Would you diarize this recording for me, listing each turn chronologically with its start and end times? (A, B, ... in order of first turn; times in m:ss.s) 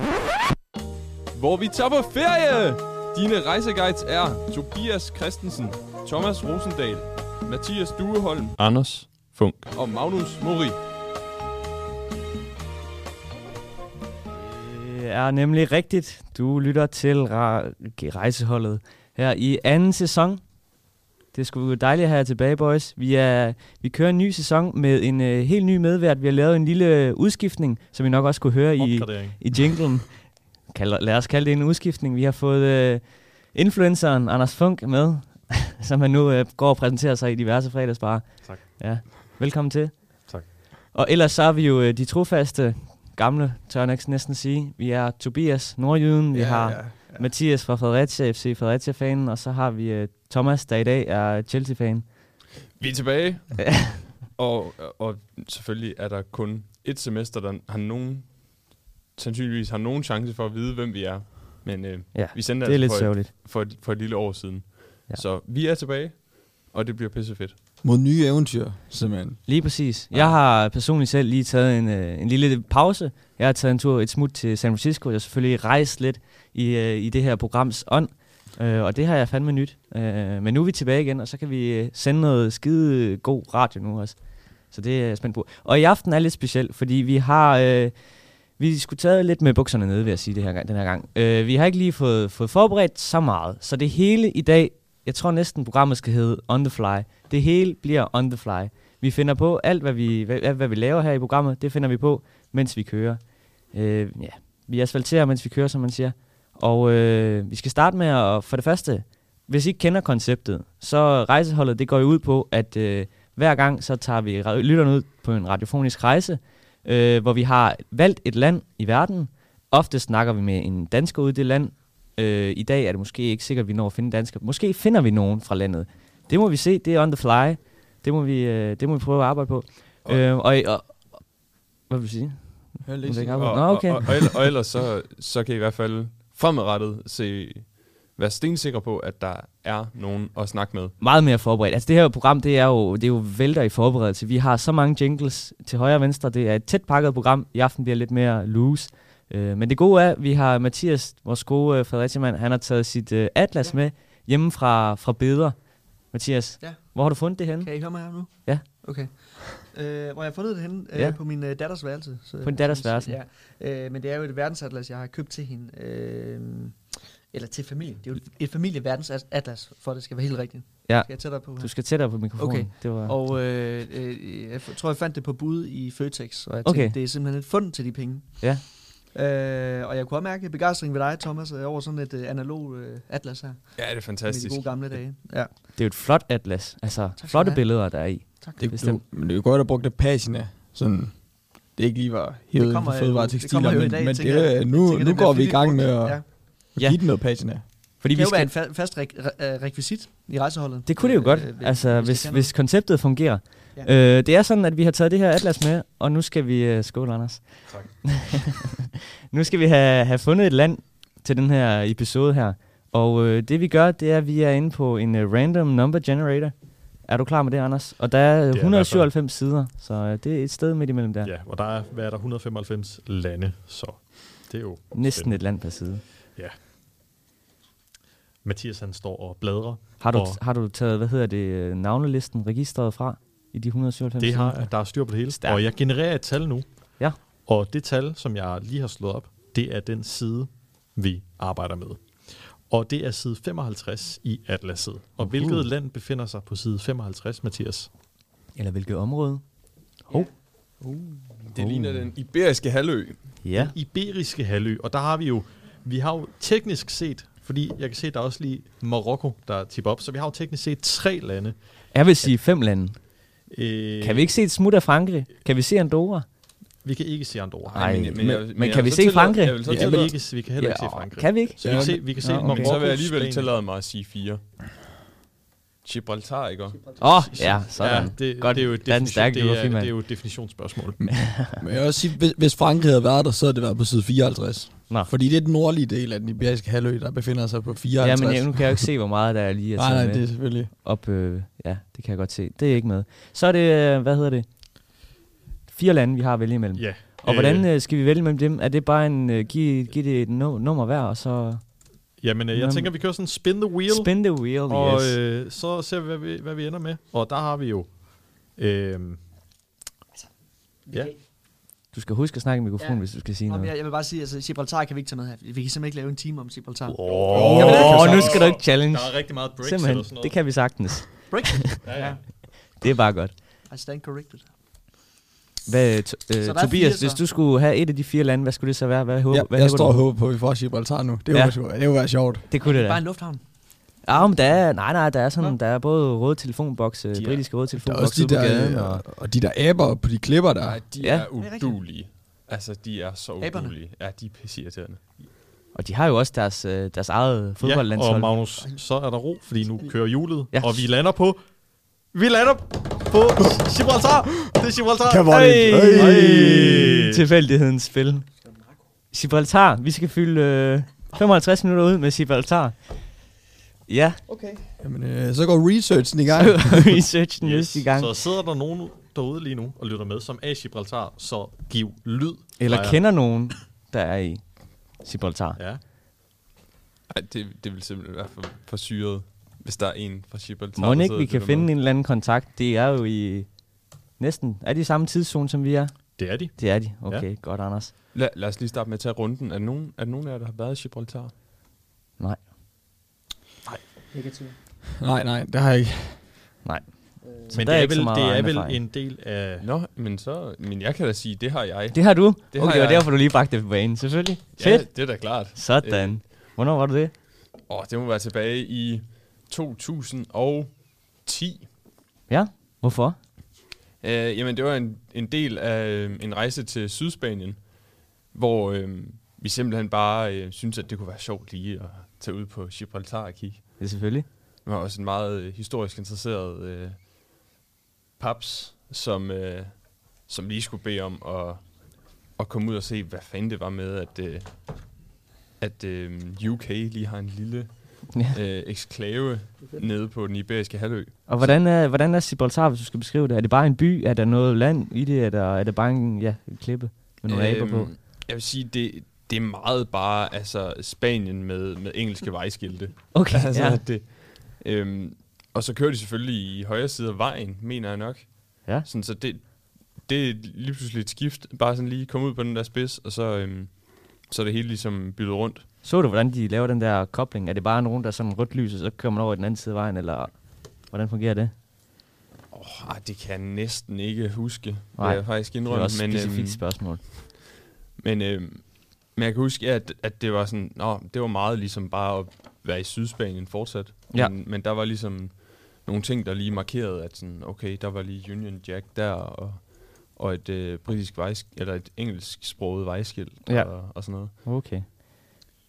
0:01.3-0:10.8 A
0:14.4-0:20.8 B
0:21.3-0:52.1 B
0:28.8-0:29.5 C
0:38.4-0:39.4 C
0:46.3-0:47.3 C
0:52.8-1:07.6 A
1:02.1-1:03.3 B
1:07.8-1:09.4 D
1:09.4-2:14.4 B
2:12.8-2:13.9 D
2:13.4-2:21.0 A
2:21.0-2:38.6 B
2:36.6-3:05.8 E
2:40.9-2:41.2 B
2:42.4-2:43.2 B
2:50.8-2:53.2 B
2:56.6-2:57.0 B
3:03.8-3:05.0 A
3:05.5-3:09.0 B
3:07.2-3:08.6 E
3:08.6-3:17.7 D
3:12.5-3:16.4 E
3:16.8-3:18.5 B
3:18.0-3:22.6 E
3:20.9-3:28.4 B
3:27.7-3:28.0 C
3:29.3-3:41.3 B
3:38.5-3:39.1 C
3:41.2-3:46.6 C
3:44.9-3:46.0 B
3:48.4-3:50.4 C
3:50.0-3:55.6 B
3:54.2-4:07.9 C
4:05.2-4:05.7 B
4:08.5-4:12.1 B
4:11.4-4:13.4 A
4:13.4-4:13.7 B
4:13.5-4:22.3 C
4:21.9-4:23.5 B
4:23.5-4:24.3 C
4:24.0-4:26.3 B
4:26.8-4:28.0 C
4:27.7-4:32.9 B
4:27.8-4:30.1 A
4:28.2-4:28.4 D
4:29.6-4:33.5 C
4:29.7-4:30.1 D
4:31.6-4:32.3 D
4:32.2-4:34.4 A
4:35.8-4:37.0 A
4:37.0-4:40.0 B
4:37.0-4:41.3 C
4:41.3-4:41.6 B
4:41.6-4:48.9 D
4:48.0-4:55.0 B
4:49.8-4:50.7 D
4:55.7-5:05.2 B
4:56.8-4:57.7 C
5:02.2-5:09.3 C
5:10.8-5:11.2 E
5:11.9-5:13.7 B
5:12.8-5:18.4 E
5:16.9-5:20.7 C
5:17.3-5:18.3 A
5:17.4-5:23.4 B
5:21.3-5:22.2 E
5:21.8-5:22.2 C
5:23.7-5:24.6 E
5:25.7-5:30.0 B
5:26.4-5:27.2 E
5:29.3-5:32.5 D
5:31.3-5:39.0 B
5:32.5-5:34.7 E
5:37.1-5:37.4 A
5:37.7-5:40.8 D
5:40.6-5:45.2 A
5:41.0-5:41.3 B
5:41.3-5:41.8 E
5:43.4-5:43.8 E
5:45.7-5:48.4 B
5:47.6-5:57.1 C
5:48.6-5:49.3 E
5:49.8-5:50.1 E
5:50.5-5:50.9 B
5:55.0-5:56.9 D
5:55.3-5:58.3 B
5:58.4-5:58.8 E
5:59.1-6:03.3 B
6:03.9-6:04.2 B
6:04.3-6:04.6 E
6:04.8-6:07.0 D
6:06.3-6:08.1 B
6:07.4-6:13.0 C
6:12.6-6:15.6 B
6:15.6-6:15.8 C
6:17.1-6:21.7 A
6:20.8-6:27.9 B
6:26.2-6:27.3 C
6:28.1-6:31.3 A
6:32.2-6:32.4 B
6:34.1-6:34.5 E
6:35.0-6:36.2 D
6:36.6-6:38.8 B
6:37.5-6:39.7 C
6:39.6-6:43.1 A
6:41.9-6:47.1 B
6:44.6-6:46.2 A
6:47.7-6:51.7 A
6:52.3-6:53.2 B
6:54.0-7:03.8 A
7:03.8-7:04.3 B
7:04.6-7:07.0 A
7:08.2-7:15.1 A
7:15.6-7:21.6 A
7:21.3-7:27.9 B
7:27.2-7:45.7 A
7:33.1-7:33.8 B
7:45.8-7:51.5 B
7:52.5-8:14.3 A
7:55.0-7:57.0 B
8:13.5-8:15.4 B